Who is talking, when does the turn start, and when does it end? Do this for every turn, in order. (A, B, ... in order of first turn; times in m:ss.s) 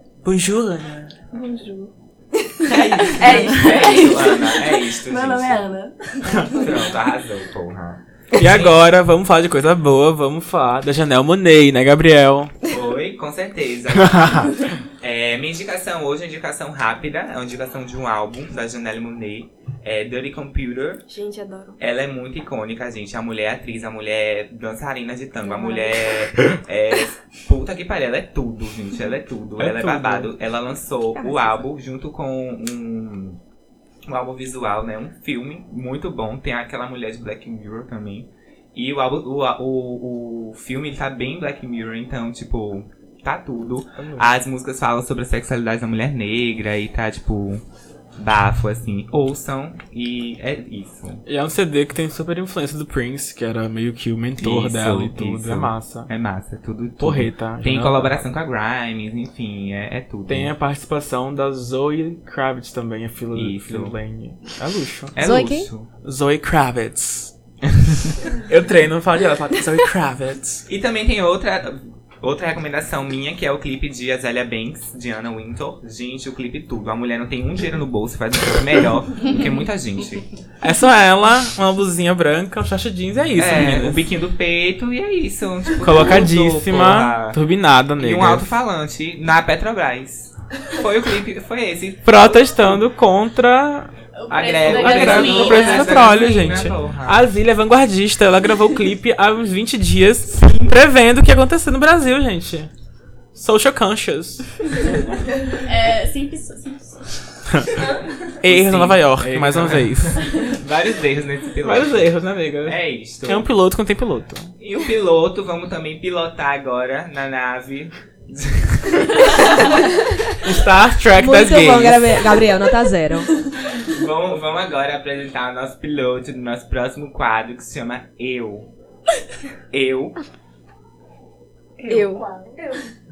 0:00.2-0:01.2 A
0:01.3-0:01.9 B
0:02.6-0:04.5 C
0:02.7-0:03.4 A
0:03.2-0:05.6 D
0:03.4-0:03.9 B
0:05.1-0:06.3 B
0:06.3-0:06.7 A
0:06.4-0:08.8 D
0:08.4-0:12.5 A
0:12.7-0:21.0 D
0:14.0-0:14.6 A
0:21.1-0:21.8 C
0:21.8-0:33.4 D
0:25.4-0:25.9 C
0:29.6-0:30.3 A
0:31.2-0:31.6 C
0:34.0-0:47.6 D
0:44.0-0:44.3 A
0:48.2-0:51.2 D
0:51.3-0:56.1 A
0:54.4-1:00.5 D
0:57.0-0:58.2 A
1:00.3-1:05.4 A
1:03.3-1:04.0 D
1:05.1-1:05.9 D
1:05.2-1:05.7 E
1:05.9-1:07.3 A
1:07.8-1:08.1 D
1:08.3-1:10.6 A
1:10.7-1:20.2 D
1:20.6-1:24.0 A
1:23.3-1:27.4 D
1:25.8-1:28.5 A
1:28.0-1:32.8 D
1:32.0-1:33.9 A
1:34.1-1:36.2 F
1:34.3-1:37.2 D
1:34.6-1:42.7 A
1:43.3-1:45.0 A
1:45.6-1:47.2 F
1:47.6-1:47.8 A
1:48.4-1:50.6 A
1:48.4-1:53.5 D
1:51.6-1:54.5 A
1:54.6-1:59.7 D
2:00.4-2:02.3 A
2:01.2-2:03.3 E
2:03.8-2:08.7 D
2:09.7-2:10.1 D
2:11.8-2:12.2 C
2:11.9-2:12.6 B